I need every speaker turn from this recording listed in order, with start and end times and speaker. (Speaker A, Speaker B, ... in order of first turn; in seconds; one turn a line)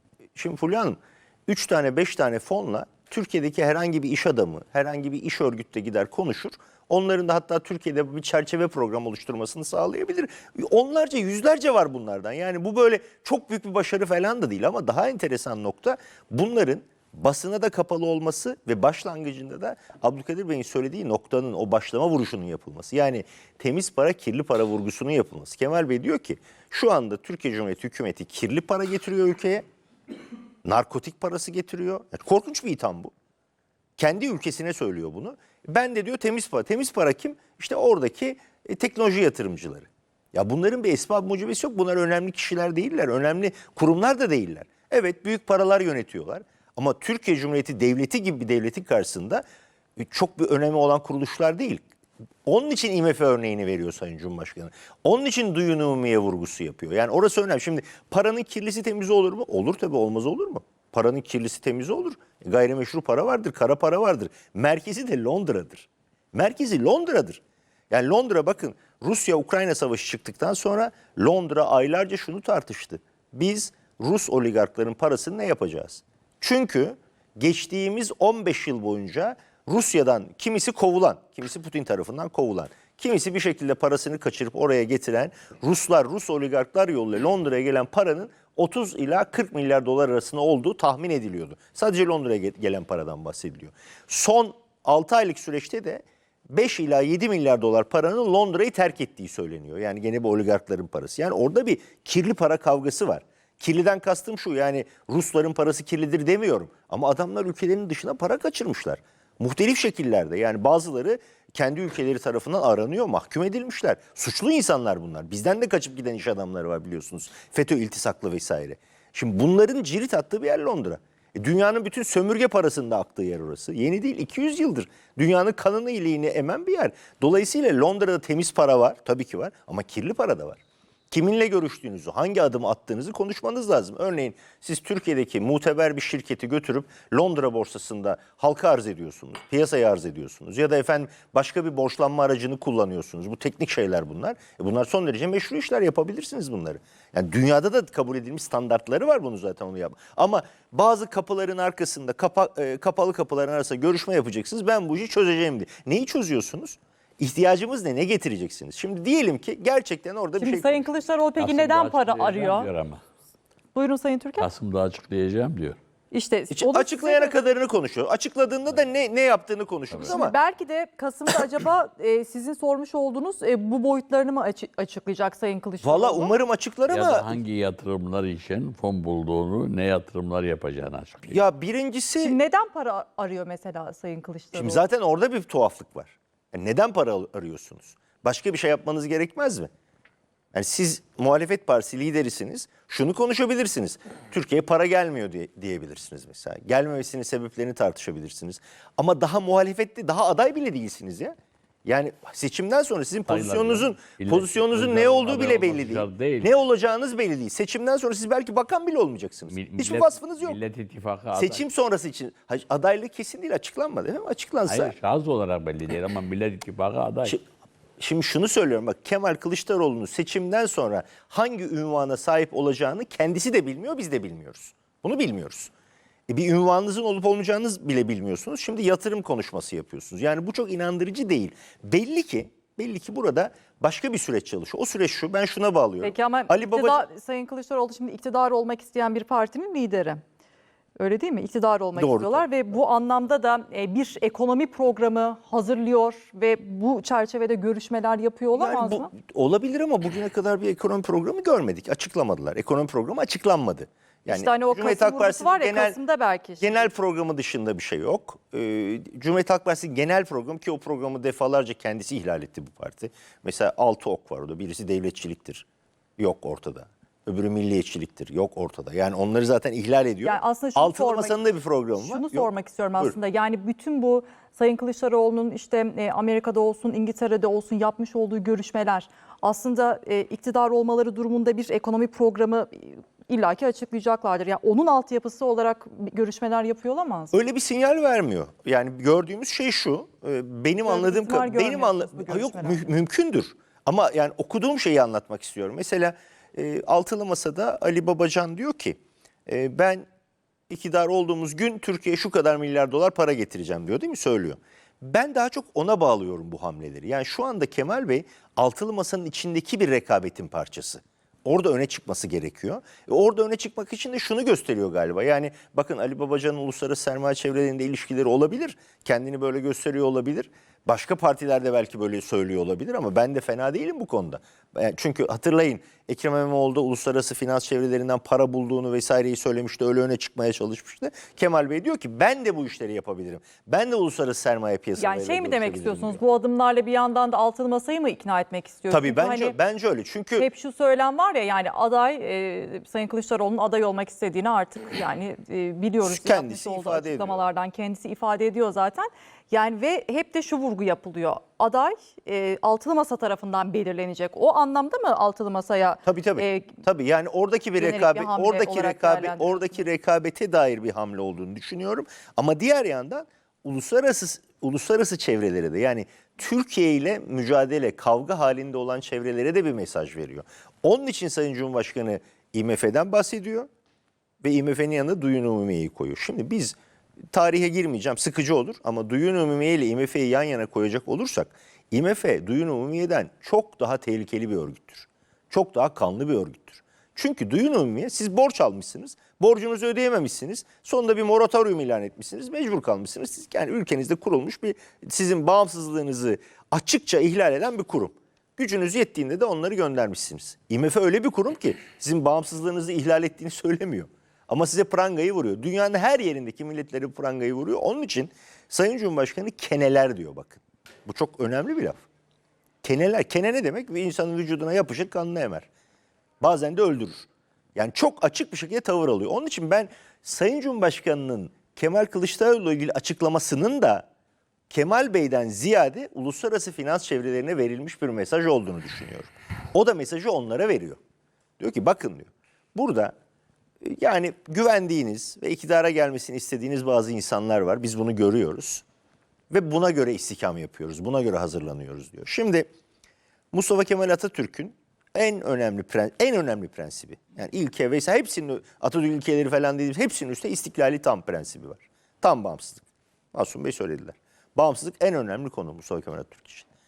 Speaker A: 0.3-29.6
Speaker A: 30.6-33.1
Speaker A: 34.0-49.4
Speaker A: 50.0-51.8
Speaker A: 52.5-160.8
Speaker B: 160.4-162.7
Speaker C: 161.4-163.0
Speaker B: 163.7-164.5
Speaker C: 164.4-165.8
Speaker B: 166.1-167.3
Speaker A: 166.5-170.3
Speaker C: 169.9-170.2
Speaker B: 170.0-176.3
Speaker A: 175.8-177.4
Speaker C: 176.9-181.4
Speaker A: 181.3-182.4
Speaker B: 182.2-184.8
Speaker A: 184.5-189.7
Speaker A: 190.5-210.6
Speaker C: 203.3-206.5
Speaker C: 209.5-211.6
Speaker A: 211.3-214.9
Speaker C: 214.7-217.4
Speaker A: 218.0-225.7
Speaker A: 226.3-237.1
Speaker B: 236.0-240.2
Speaker B: 241.0-249.1
Speaker A: 241.9-242.5
Speaker A: 248.5-256.0
Speaker B: 254.3-256.9
Speaker A: 256.6-265.6
Speaker A: 266.2-273.1
Speaker B: 270.2-287.3
Speaker A: 287.3-300.0
Speaker B: 290.8-292.9
Speaker A: 300.7-336.2
Speaker B: 335.0-339.6
Speaker A: 338.9-340.5
Speaker B: 340.4-356.8
Speaker A: 346.0-347.4
Speaker A: 356.1-373.7
Speaker B: 357.8-359.8
Speaker A: 374.4-376.8
Speaker A: 377.3-412.0
Speaker A: 412.8-415.7
Speaker A: 416.4-424.0
Speaker A: 424.7-431.0
Speaker A: 431.6-433.1
Speaker A: 433.8-438.8
Speaker A: 439.5-442.7
Speaker A: 443.5-456.7